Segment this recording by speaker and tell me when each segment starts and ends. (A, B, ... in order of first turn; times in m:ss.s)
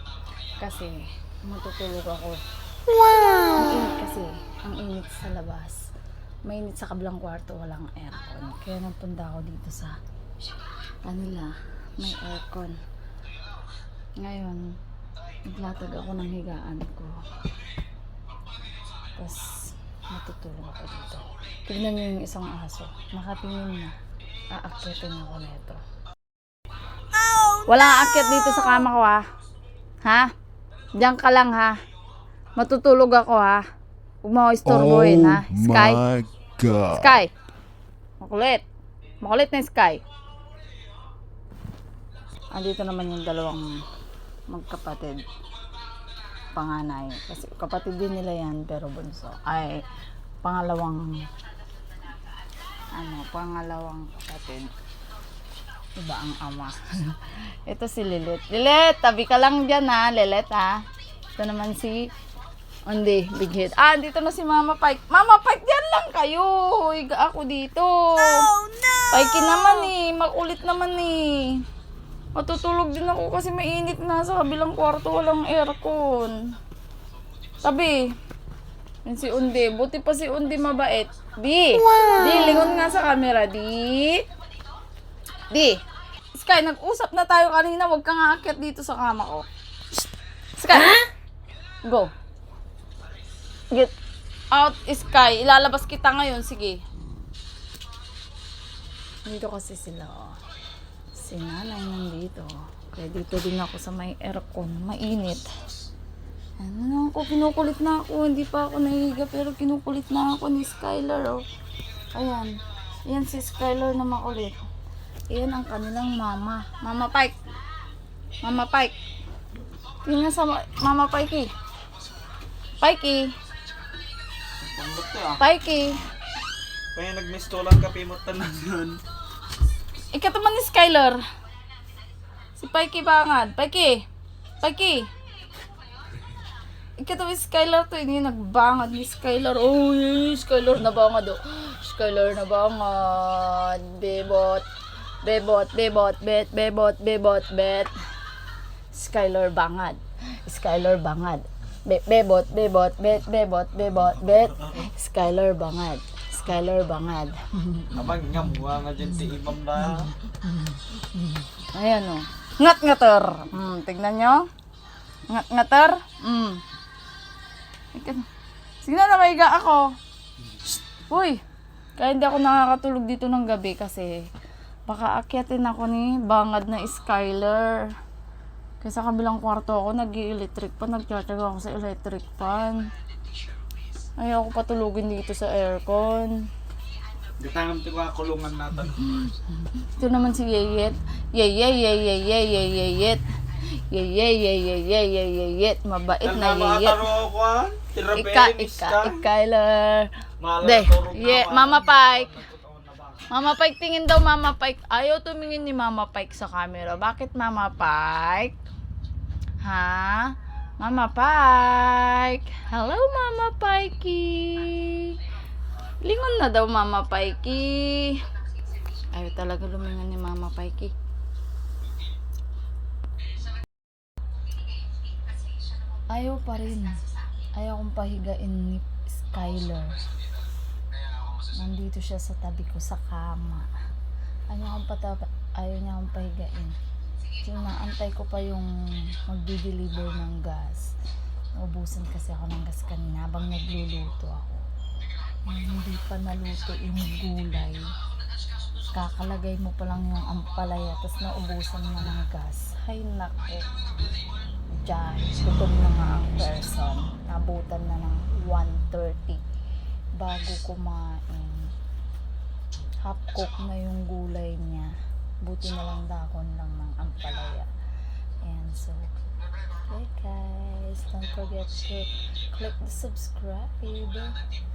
0:00.6-0:02.4 A
0:03.5-0:05.8 A
0:06.4-0:10.0 A
0:11.0-0:12.8 A
0:14.2-0:14.7 A
0:15.4-0:17.2 A
0:19.2-0:24.0 A
0:24.5-0:25.8 A
0:27.5-0:29.2 A
0:30.0-0:30.3 A
0:31.0-0:31.8 A
0:32.6-0:33.6 A
0:34.2-0:36.0 A
0:34.6-0:37.2 B
0:36.9-0:37.3 A
0:38.2-0:38.6 A
0:39.2-0:40.0 A
0:42.5-0:43.7 A
0:44.5-0:45.2 A
0:46.5-0:49.8 A
0:50.4-0:51.2 A
0:52.9-0:54.7 A
0:56.0-1:00.8 A
1:01.4-1:02.1 A
1:02.9-1:08.6 A
1:09.1-1:11.6 A
1:12.3-1:16.4 A
1:17.6-1:18.1 A
1:19.0-1:24.2 A
1:25.5-1:25.8 A
1:26.3-1:29.5 A
1:30.6-1:31.1 A
1:31.8-1:32.1 A
1:34.5-1:36.8 A
1:39.3-1:40.4 A
1:41.2-1:45.5 A
1:46.6-1:51.4 A
1:52.1-1:54.6 A
1:55.3-1:57.4 A
1:58.4-1:59.0 A
2:00.0-2:01.5 A
2:02.8-2:03.3 A
2:04.6-2:05.4 C
2:05.4-2:06.0 A
2:07.0-2:09.0 C
2:10.1-2:11.2 A
2:12.6-2:14.0 A
2:14.6-2:15.1 A
2:17.0-2:24.7 A
2:25.2-2:27.9 A
2:28.9-2:37.9 A
2:37.9-2:40.1 C
2:41.7-2:44.5 A
2:45.3-2:46.6 A
2:47.9-2:48.3 A
2:48.8-2:49.9 A
2:51.1-2:51.4 A
2:52.0-2:54.3 A
2:54.9-2:57.9 A
2:58.8-3:02.9 A
3:04.2-3:06.5 A
3:07.4-3:09.3 C
3:09.8-3:17.1 A
3:16.2-3:19.2 C
3:18.1-3:22.3 A
3:20.4-3:23.2 C
3:23.3-3:28.6 A
3:29.6-3:35.2 A
3:36.0-3:38.3 A
3:39.1-3:41.0 A
3:46.1-3:47.0 A
3:47.5-3:50.0 A
3:51.4-3:53.7 A
3:54.5-3:56.8 A
3:57.4-4:00.9 A
4:01.6-4:04.6 A
4:05.5-4:07.9 A
4:08.9-4:13.7 A
4:14.7-4:19.4 A
4:20.2-4:21.7 A
4:23.0-4:24.9 A
4:25.4-4:27.7 A
4:28.4-4:29.1 A
4:29.8-4:34.4 A